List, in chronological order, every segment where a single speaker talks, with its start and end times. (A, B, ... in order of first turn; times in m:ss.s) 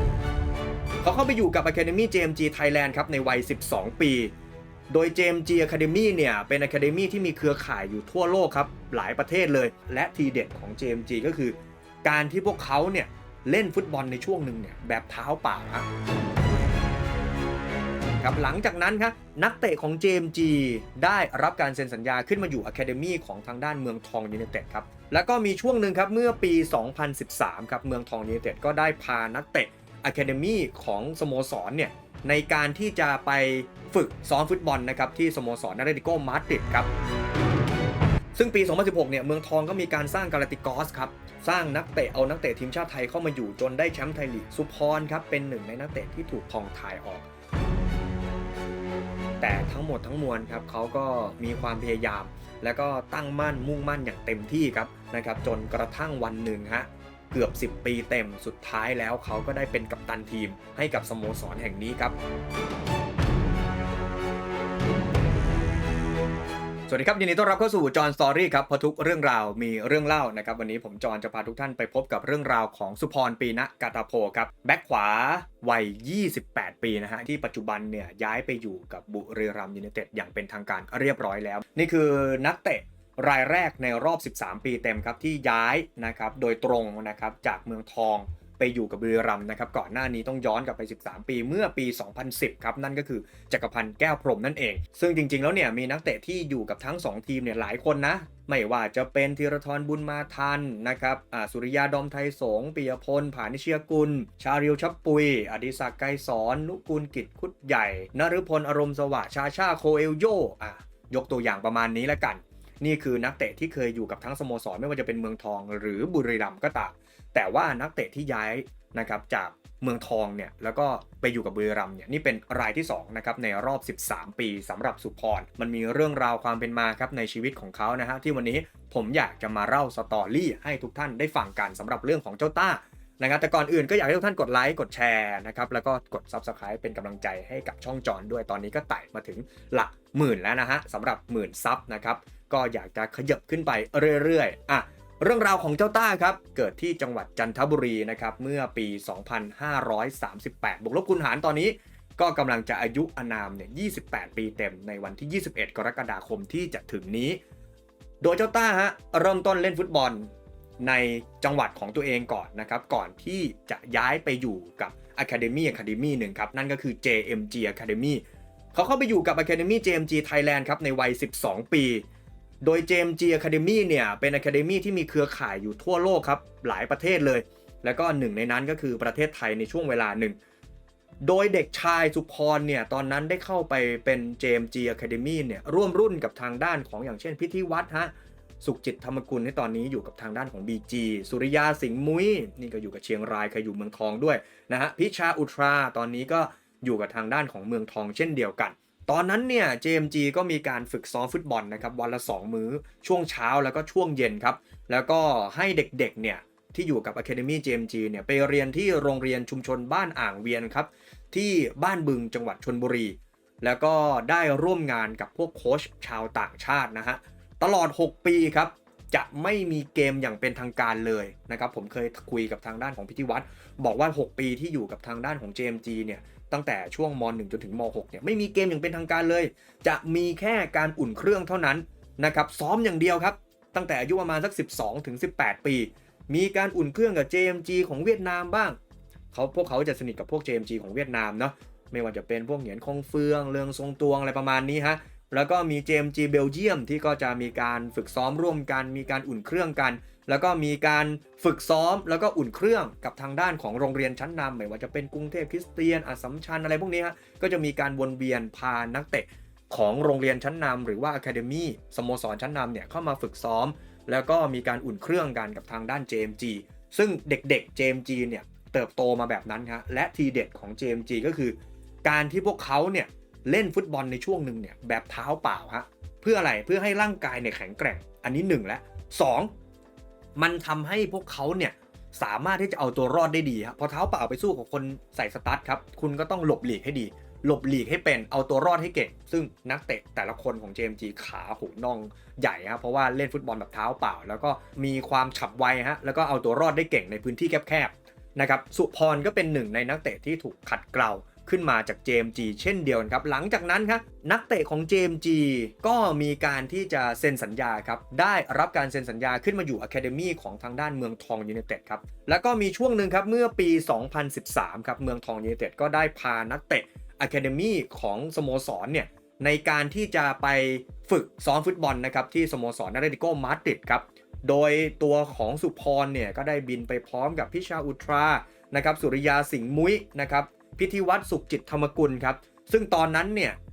0:01.0-0:04.3 A
0:04.9-0:15.9 A
0:18.2-0:36.9 A
0:38.3-0:47.3 A
0:49.4-1:02.1 A
1:06.9-2:37.4 A
2:38.2-2:52.0 A
2:52.6-3:00.4 A
3:01.2-3:58.8 A
3:59.3-4:39.5 A
4:40.4-5:33.6 A